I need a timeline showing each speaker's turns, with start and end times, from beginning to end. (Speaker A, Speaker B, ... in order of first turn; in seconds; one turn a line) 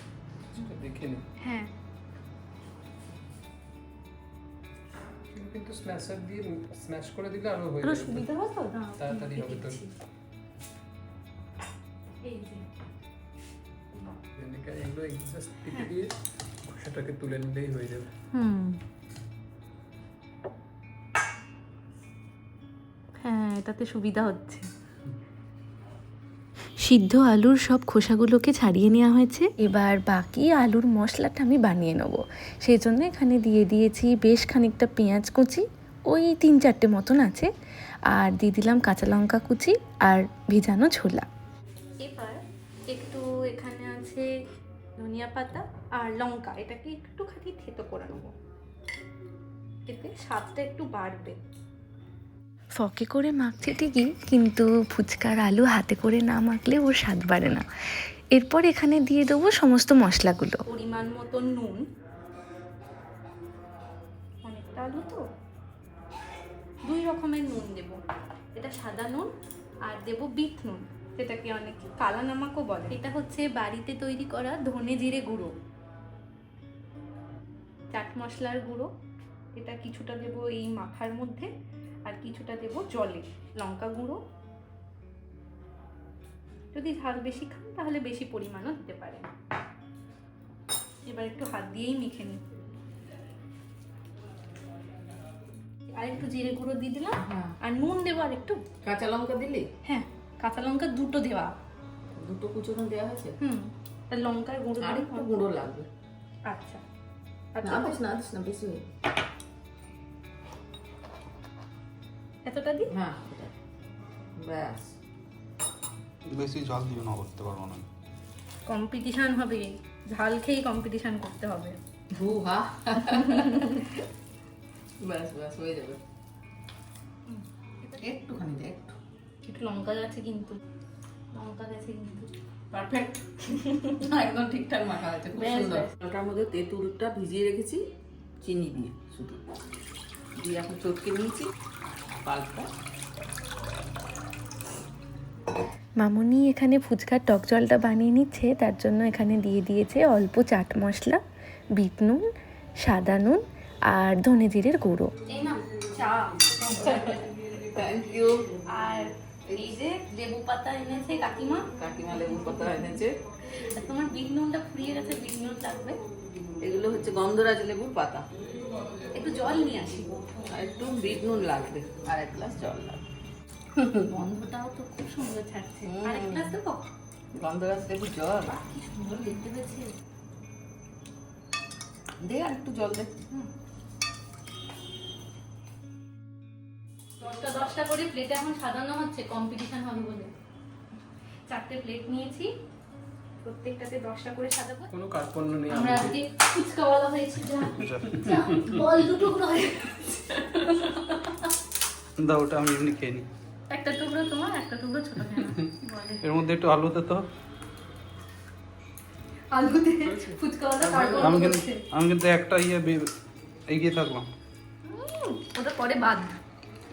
Speaker A: 0.5-1.2
Speaker B: 1.4-1.7
Speaker A: 5.3-8.2
Speaker B: 7.8-9.9
Speaker A: 9.0-9.8
Speaker B: 12.2-12.7
Speaker A: 14.4-16.1
Speaker A: 16.7-18.1
Speaker B: 18.3-18.8
Speaker B: 23.2-24.6
Speaker B: 26.8-29.5
Speaker C: 26.9-27.4
Speaker C: 29.5-37.5
Speaker C: 38.1-41.2
Speaker B: 42.0-44.2
Speaker B: 45.0-48.3
Speaker B: 49.9-51.4
Speaker C: 52.8-57.6
Speaker C: 58.3-60.6
Speaker B: 60.7-61.8
Speaker B: 64.4-65.2
Speaker B: 66.8-68.0
Speaker B: 68.5-69.3
Speaker B: 69.9-75.5
Speaker B: 77.9-78.9
Speaker B: 79.6-81.5
Speaker B: 82.1-84.2
Speaker B: 86.7-89.3
Speaker B: 91.0-92.4
Speaker B: 95.9-98.6
Speaker D: 97.2-97.5
Speaker D: 98.8-99.7
Speaker B: 99.8-101.5
Speaker D: 102.1-103.3
Speaker B: 103.4-105.3
Speaker D: 104.8-105.9
Speaker B: 106.5-106.8
Speaker B: 107.5-108.0
Speaker D: 107.6-108.8
Speaker B: 112.5-112.9
Speaker D: 112.9-113.5
Speaker D: 114.4-114.9
Speaker E: 116.3-117.8
Speaker B: 118.7-121.8
Speaker D: 122.1-123.5
Speaker B: 123.3-123.7
Speaker D: 125.0-126.0
Speaker B: 127.3-127.9
Speaker D: 128.0-128.9
Speaker B: 129.4-130.6
Speaker B: 131.3-132.3
Speaker D: 132.7-133.2
Speaker B: 133.5-133.9
Speaker D: 134.0-137.8
Speaker B: 135.3-135.9
Speaker D: 138.4-139.4
Speaker D: 140.3-141.5
Speaker D: 142.2-142.7
Speaker C: 146.0-151.2
Speaker C: 151.8-152.2
Speaker C: 152.8-155.1
Speaker B: 155.3-157.3
Speaker D: 157.7-158.5
Speaker B: 158.7-161.7
Speaker D: 161.8-163.1
Speaker B: 163.6-166.0
Speaker D: 166.6-168.2
Speaker A: 168.4-169.1
Speaker B: 169.1-170.2
Speaker D: 170.5-173.0
Speaker D: 173.8-174.1
Speaker B: 174.1-176.8
Speaker D: 175.8-176.5
Speaker D: 177.3-178.5
Speaker B: 178.4-179.9
Speaker D: 182.2-183.2
Speaker B: 187.2-190.3
Speaker B: 191.5-192.5
Speaker B: 193.4-194.9
Speaker A: 194.9-196.2
Speaker B: 195.7-201.5
Speaker E: 197.8-198.1
Speaker E: 202.2-203.2
Speaker B: 203.7-206.2
Speaker E: 206.2-207.2
Speaker B: 209.5-211.8
Speaker A: 210.0-211.3
Speaker E: 211.2-213.0
Speaker E: 213.7-214.2
Speaker B: 214.8-216.3